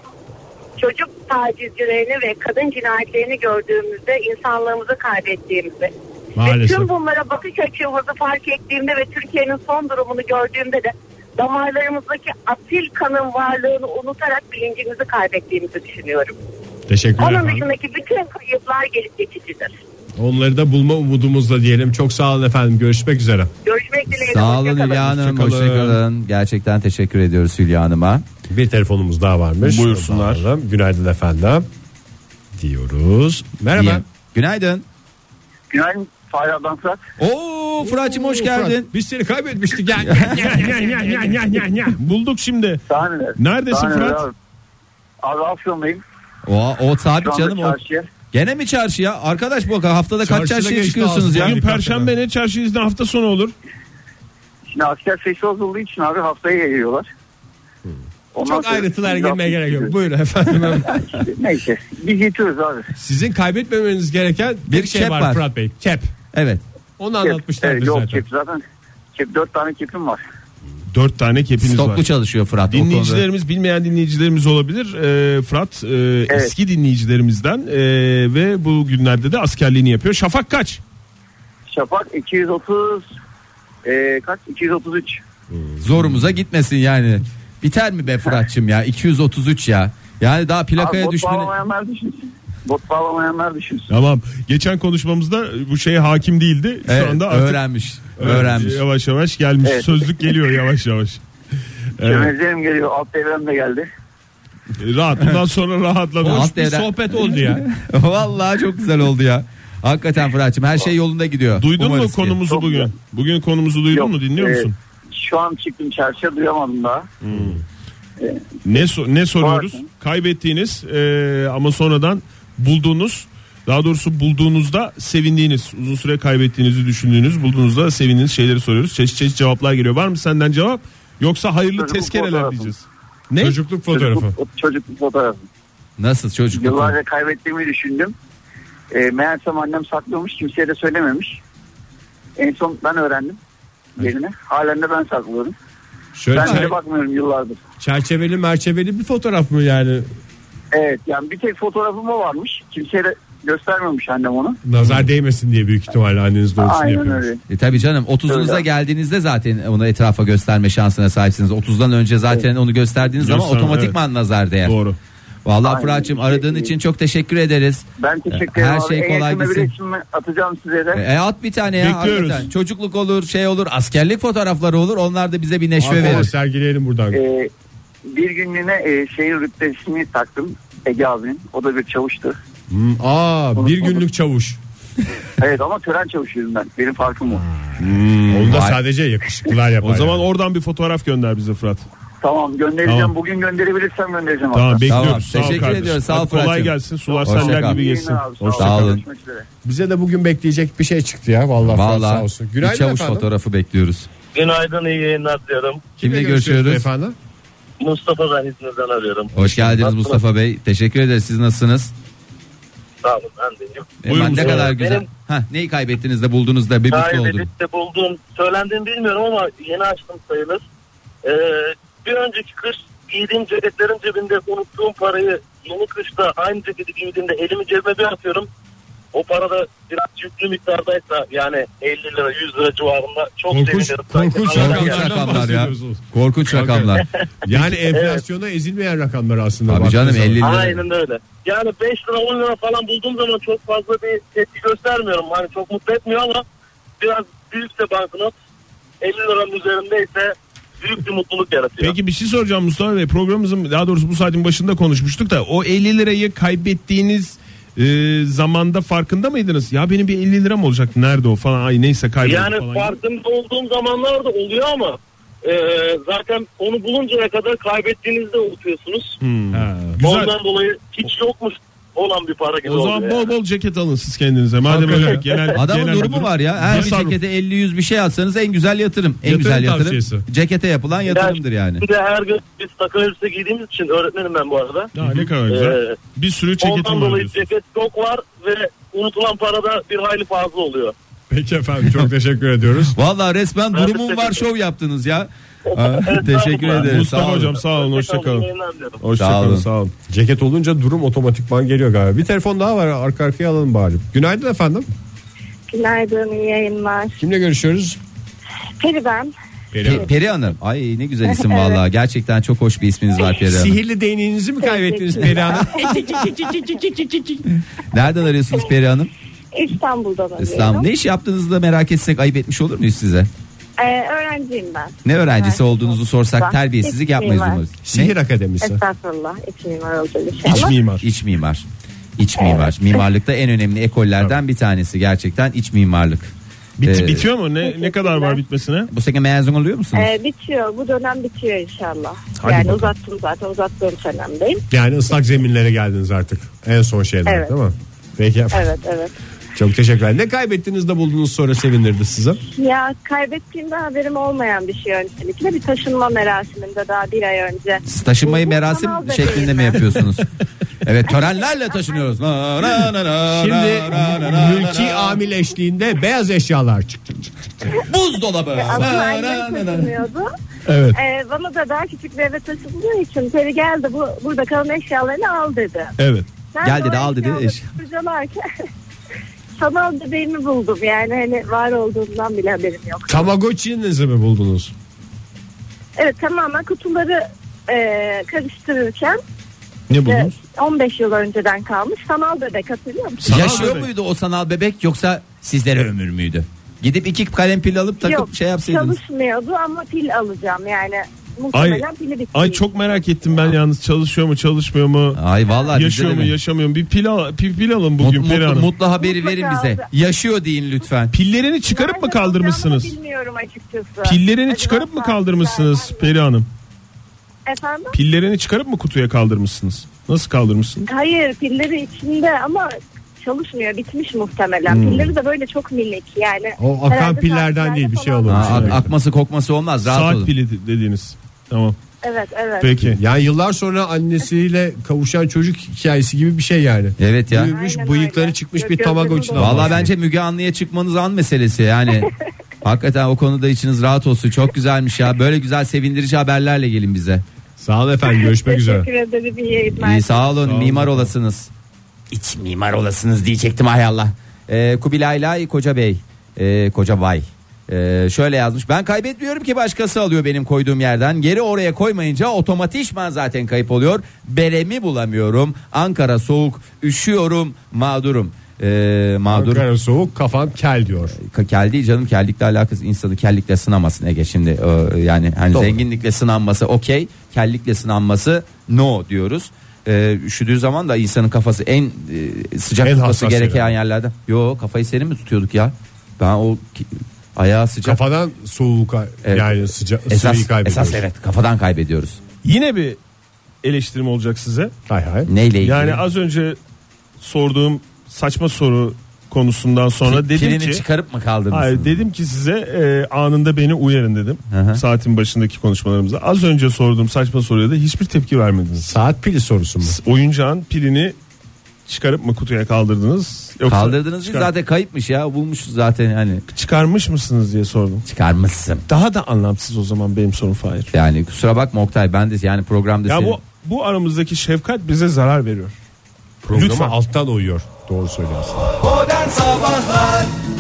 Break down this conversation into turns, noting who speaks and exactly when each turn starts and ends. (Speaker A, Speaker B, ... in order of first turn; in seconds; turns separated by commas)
Speaker A: 0.8-16.4, Speaker B: 6.4-6.9, Speaker B: 16.9-17.7, Speaker A: 17.2-19.8, Speaker B: 20.2-23.5, Speaker A: 23.6-25.1, Speaker C: 24.1-28.2, Speaker B: 25.2-26.0, Speaker B: 28.5-31.6, Speaker D: 29.6-30.4, Speaker B: 32.6-34.0, Speaker C: 33.7-34.9, Speaker E: 35.7-37.0, Speaker C: 37.2-38.9, Speaker B: 37.9-42.0, Speaker C: 40.0-40.4, Speaker D: 40.3-42.9, Speaker E: 42.9-44.3, Speaker D: 43.4-44.2, Speaker E: 45.2-46.0, Speaker C: 46.5-47.8, Speaker E: 47.2-48.1, Speaker C: 48.3-51.6, Speaker B: 50.2-52.1, Speaker D: 51.3-53.5, Speaker E: 54.7-57.1, Speaker B: 57.9-61.3, Speaker E: 58.3-59.9, Speaker E: 61.0-62.9, Speaker B: 63.0-66.1, Speaker C: 64.7-65.5, Speaker C: 66.3-66.6, Speaker B: 67.0-68.2, Speaker E: 67.2-68.6, Speaker E: 69.2-70.2, Speaker D: 70.9-72.0, Speaker C: 71.6-73.2, Speaker D: 72.7-80.8, Speaker E: 81.7-83.1, Speaker E: 83.8-85.2, Speaker B: 85.5-86.3, Speaker C: 85.8-91.5, Speaker E: 90.8-93.9, Speaker D: 93.9-97.6, Speaker C: 96.9-98.8, Speaker D: 98.2-101.2, Speaker E: 99.7-100.0, Speaker D: 102.0-102.3, Speaker E: 102.0-103.9, Speaker D: 104.8-106.5, Speaker B: 106.2-107.6, Speaker C: 106.2-112.4, Speaker D: 111.6-114.8, Speaker E: 112.5-112.9, Speaker E: 113.9-117.1, Speaker D: 117.2-117.6, Speaker B: 117.3-117.6, Speaker E: 118.2-118.8, Speaker D: 118.7-133.6, Speaker E: 119.4-119.8, Speaker E: 131.7-132.7, Speaker B: 133.4-134.3, Speaker E: 133.9-135.5, Speaker C: 136.0-136.9, Speaker E: 136.5-138.2, Speaker E: 138.9-141.4, Speaker E: 142.4-143.4, Speaker E: 144.0-145.6, Speaker B: 146.2-146.8, Speaker E: 146.3-147.6, Speaker B: 147.8-150.1, Speaker E: 150.7-154.6, Speaker B: 154.6-157.3, Speaker E: 156.6-157.4, Speaker C: 157.5-164.8, Speaker E: 158.3-158.6, Speaker D: 163.2-164.0, Speaker D: 164.6-165.0, Speaker C: 165.4-169.7, Speaker E: 165.6-166.7, Speaker E: 168.0-171.0, Speaker C: 170.9-176.3, Speaker D: 171.8-172.5, Speaker B: 175.8-177.2, Speaker E: 177.1-177.5, Speaker E: 178.1-182.4, Speaker B: 182.7-184.6, Speaker E: 183.6-184.0, Speaker E: 185.4-187.5, Speaker B: 187.3-190.3, Speaker D: 187.8-188.7, Speaker C: 188.5-188.8, Speaker D: 189.8-191.9, Speaker E: 192.2-194.9, Speaker D: 192.8-193.1, Speaker D: 194.5-199.0, Speaker C: 194.9-197.8, Speaker E: 197.1-199.5, Speaker C: 198.6-199.0, Speaker B: 199.7-203.3, Speaker C: 201.7-204.1, Speaker F: 204.3-205.8, Speaker B: 206.0-207.2, Speaker C: 206.0-206.9, Speaker F: 207.8-210.2, Speaker C: 209.3-211.9, Speaker F: 213.0-215.1, Speaker C: 214.0-217.5, Speaker D: 214.1-214.8, Speaker F: 216.9-220.6, Speaker F: 221.2-228.5, Speaker F: 229.1-235.3, Speaker B: 233.5-240.6, Speaker C: 234.5-237.1, Speaker F: 237.9-238.2, Speaker C: 239.7-240.8, Speaker F: 240.4-246.4, Speaker F: 247.0-248.3, Speaker F: 249.0-252.0, Speaker D: 251.8-263.0, Speaker F: 262.2-269.2, Speaker D: 269.2-270.4, Speaker B: 269.5-270.0, Speaker F: 270.0-273.3, Speaker D: 272.6-277.2, Speaker B: 274.7-275.3, Speaker C: 275.6-281.8, Speaker B: 279.2-280.2, Speaker F: 281.1-284.9, Speaker D: 284.9-287.5, Speaker F: 285.5-286.0, Speaker F: 286.6-290.9, Speaker B: 291.3-293.0, Speaker C: 292.9-297.6, Speaker F: 293.7-294.4, Speaker F: 295.7-297.0, Speaker D: 296.6-298.5, Speaker F: 297.6-299.0, Speaker D: 299.0-299.9, Speaker C: 299.2-299.7, Speaker B: 300.1-304.9, Speaker A: 305.7-307.2, Speaker B: 307.2-308.0, Speaker A: 308.8-309.3, Speaker B: 309.7-310.1, Speaker C: 309.8-313.8, Speaker A: 311.3-311.8, Speaker B: 313.4-315.9, Speaker A: 314.6-317.4, Speaker C: 315.9-319.1, Speaker A: 319.5-320.9, Speaker C: 320.4-323.3, Speaker A: 323.8-327.6, Speaker C: 325.0-328.1, Speaker B: 327.8-328.8, Speaker A: 328.6-330.8, Speaker D: 330.5-331.0, Speaker C: 331.0-331.6, Speaker C: 332.2-336.3, Speaker A: 332.4-332.7, Speaker D: 336.8-338.9, Speaker C: 336.8-337.2, Speaker A: 337.6-338.4, Speaker C: 338.9-340.1, Speaker A: 339.9-344.6, Speaker D: 342.4-342.9, Speaker B: 344.7-348.7, Speaker A: 347.3-347.5, Speaker A: 348.5-349.1, Speaker B: 349.6-352.4, Speaker A: 352.6-360.1, Speaker C: 357.9-360.3, Speaker C: 360.8-365.2, Speaker B: 363.3-367.7, Speaker C: 367.8-369.9, Speaker A: 368.6-370.3, Speaker D: 370.7-371.0, Speaker A: 370.9-375.9, Speaker D: 376.0-376.3, Speaker A: 376.5-378.4, Speaker C: 376.6-377.7, Speaker A: 379.6-383.2, Speaker B: 383.1-384.7, Speaker A: 386.0-389.2, Speaker D: 389.9-390.4, Speaker A: 390.0-393.7, Speaker C: 393.2-399.0, Speaker D: 393.2-393.9, Speaker A: 398.0-403.0, Speaker D: 401.5-405.2, Speaker C: 405.1-406.4, Speaker A: 405.4-405.8, Speaker D: 405.7-408.7, Speaker C: 408.0-411.1, Speaker A: 409.0-409.9, Speaker D: 411.1-412.9, Speaker A: 411.7-416.1, Speaker D: 414.0-416.5, Speaker A: 417.5-418.0, Speaker D: 417.9-420.9, Speaker A: 420.9-428.7, Speaker D: 424.7-425.1, Speaker B: 426.6-428.9, Speaker C: 428.3-430.3, Speaker D: 429.8-431.8, Speaker A: 432.0-432.8, Speaker D: 432.6-433.0, Speaker B: 432.9-439.9, Speaker C: 437.0-437.5, Speaker A: 437.5-439.9, Speaker C: 439.4-442.1, Speaker C: 442.6-447.2, Speaker B: 447.6-448.9, Speaker A: 448.1-450.3, Speaker C: 449.8-451.5, Speaker B: 450.4-451.1, Speaker C: 452.1-469.6, Speaker B: 469.3-471.2, Speaker C: 471.2-488.0, Speaker B: 475.5-475.8, Speaker B: 482.8-483.7, Speaker B: 487.8-491.0, Speaker C: 489.2-492.2, Speaker D: 492.4-493.0, Speaker D: 493.6-494.7, Speaker B: 494.9-495.3, Speaker C: 495.3-496.0, Speaker D: 495.6-496.6, Speaker D: 497.2-500.8, Speaker C: 500.1-502.0, Speaker D: 501.5-508.9, Speaker C: 504.5-504.8, Speaker B: 508.8-510.0, Speaker D: 509.8-511.1, Speaker D: 511.9-514.5, Speaker C: 513.7-516.5, Speaker D: 516.5-518.1, Speaker C: 518.1-518.9, Speaker D: 518.9-520.9, Speaker C: 520.9-523.4, Speaker D: 523.1-525.7, Speaker B: 526.4-528.7, Speaker D: 526.5-527.0, Speaker C: 529.1-530.2